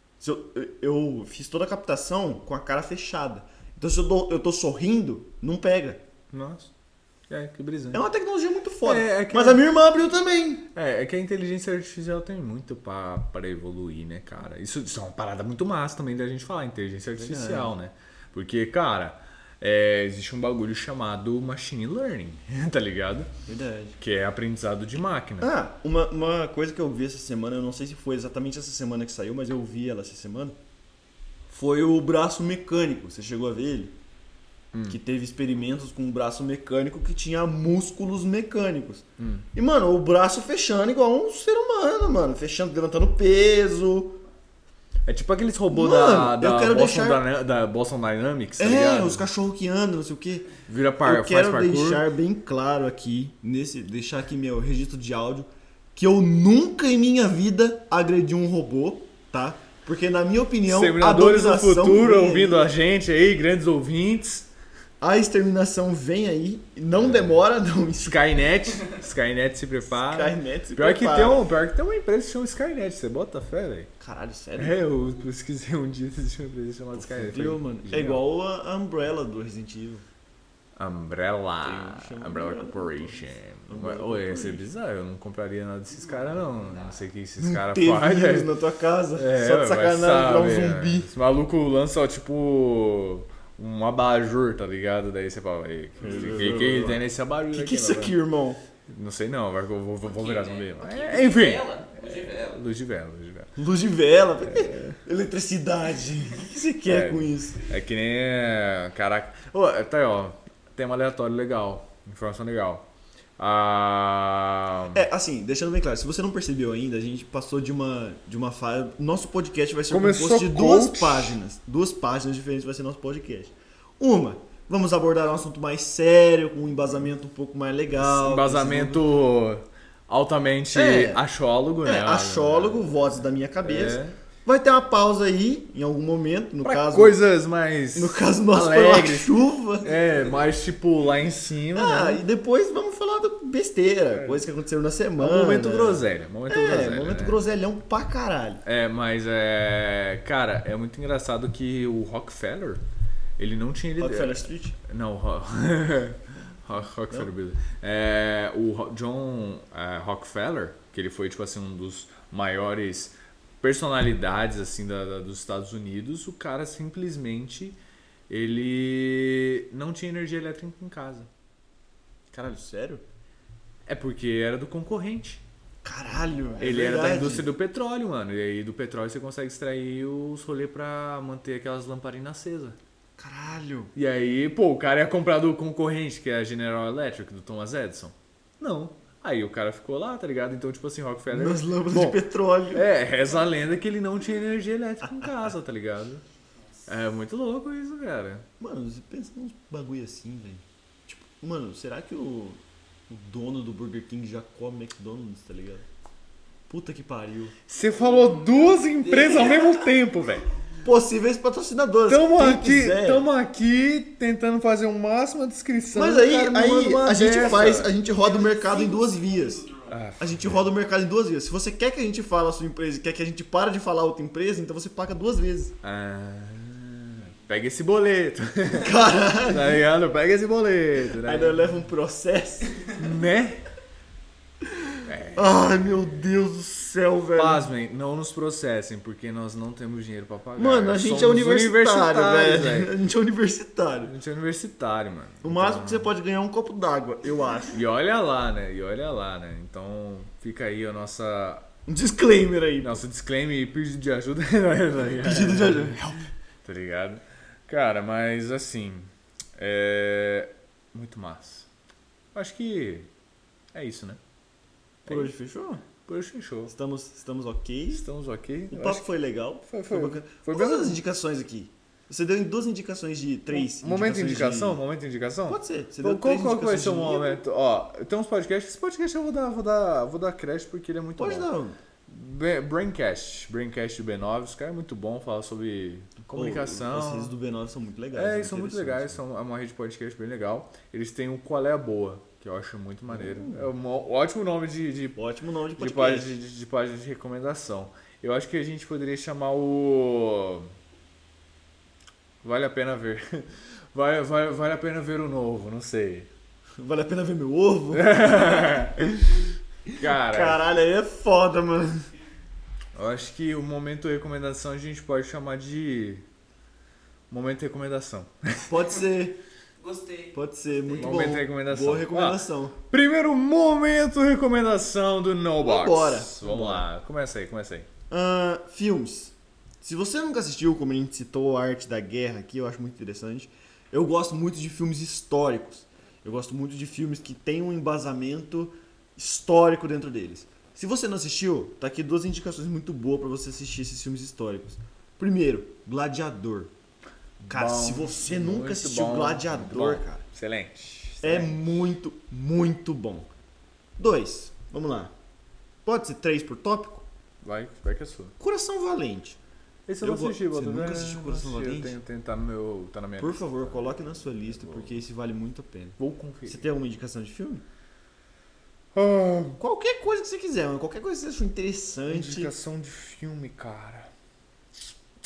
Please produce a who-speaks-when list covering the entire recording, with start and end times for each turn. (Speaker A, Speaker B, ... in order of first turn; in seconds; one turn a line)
Speaker A: 0.2-6.0
Speaker B: 6.3-6.7
Speaker B: 7.3-8.0
Speaker A: 7.9-10.6
Speaker B: 8.8-9.6
Speaker B: 10.7-23.3
Speaker A: 17.2-17.7
Speaker A: 23.4-24.0
Speaker B: 24.0-25.5
Speaker A: 25.4-30.6
Speaker A: 31.5-33.9
Speaker B: 34.7-35.0
Speaker A: 34.9-44.2
Speaker B: 39.2-39.5
Speaker B: 45.0-49.2
Speaker A: 45.7-47.2
Speaker A: 48.6-50.5
Speaker B: 50.6-52.0
Speaker A: 51.0-62.7
Speaker B: 60.6-64.5
Speaker A: 65.0-68.4
Speaker B: 66.9-67.3
Speaker B: 68.0-73.9
Speaker A: 69.9-71.5
Speaker A: 74.0-74.8
Speaker B: 74.6-78.2
Speaker A: 76.9-80.0
Speaker B: 80.8-88.5
Speaker A: 81.6-84.7
Speaker C: 85.9-87.0
Speaker A: 87.4-91.1
Speaker B: 89.1-98.2
Speaker C: 96.0-96.8
Speaker A: 96.0-98.6
Speaker B: 98.9-103.5
Speaker C: 100.0-102.6
Speaker A: 103.5-107.6
Speaker B: 104.4-105.0
Speaker B: 106.8-115.0
Speaker A: 114.9-129.1
Speaker B: 119.9-121.4
Speaker B: 128.0-133.0
Speaker A: 130.7-131.2
Speaker A: 131.8-137.2
Speaker B: 133.6-134.2
Speaker B: 136.6-142.2
Speaker A: 137.9-139.9
Speaker A: 141.7-148.6
Speaker B: 144.1-144.4
Speaker B: 145.2-147.4
Speaker B: 148.6-152.8
Speaker B: 153.4-171.3
Speaker A: 154.0-154.8
Speaker A: 172.3-173.0
Speaker B: 173.8-175.4
Speaker A: 175.8-177.5
Speaker C: 176.2-176.6
Speaker B: 176.6-182.8
Speaker A: 183.2-183.9
Speaker B: 183.9-192.2
Speaker A: 191.3-192.9
Speaker B: 192.7-196.2
Speaker B: 196.9-198.4
Speaker A: 198.6-205.8
Speaker A: 206.7-207.5
Speaker B: 207.7-210.5
Speaker C: 207.8-209.9
Speaker A: 210.8-213.3
Speaker B: 212.1-217.9
Speaker A: 215.9-225.7
Speaker C: 217.9-220.0
Speaker B: 219.9-220.6
Speaker B: 225.8-231.7
Speaker A: 228.7-229.8
Speaker A: 231.1-232.9
Speaker B: 232.9-233.6
Speaker A: 234.7-237.7
Speaker B: 235.0-236.2
Speaker B: 237.3-242.9
Speaker A: 240.6-244.1
Speaker B: 244.1-246.1
Speaker A: 245.4-247.8
Speaker B: 247.7-251.7
Speaker A: 251.9-253.0
Speaker B: 252.8-261.7
Speaker A: 255.1-256.2
Speaker B: 262.3-263.1
Speaker B: 263.7-264.2
Speaker B: 265.1-265.3
Speaker A: 265.1-265.9
Speaker B: 266.0-266.7
Speaker A: 266.7-268.1
Speaker B: 267.9-269.1
Speaker A: 268.7-274.8
Speaker B: 269.6-271.0
Speaker B: 273.5-281.5
Speaker A: 275.5-277.4
Speaker A: 281.2-281.8
Speaker B: 282.1-287.3
Speaker A: 286.3-289.2
Speaker B: 288.1-295.2
Speaker A: 293.1-293.7
Speaker A: 295.1-296.3
Speaker B: 295.8-300.7
Speaker B: 302.4-306.3
Speaker A: 306.8-312.1
Speaker B: 307.9-310.6
Speaker B: 312.9-316.2
Speaker B: 317.3-318.7
Speaker A: 318.7-319.4
Speaker C: 319.8-321.2
Speaker A: 320.3-322.8
Speaker B: 321.0-327.9
Speaker A: 325.6-326.9
Speaker A: 328.1-346.7
Speaker B: 347.4-351.7
Speaker A: 347.5-350.2
Speaker A: 351.2-353.3
Speaker A: 354.0-355.1
Speaker A: 355.8-357.1
Speaker B: 357.4-358.3
Speaker A: 358.4-359.4
Speaker B: 359.9-365.0
Speaker A: 360.0-362.0
Speaker A: 363.2-367.6
Speaker B: 366.0-366.7
Speaker B: 368.9-369.6
Speaker A: 369.6-372.5
Speaker B: 372.1-374.1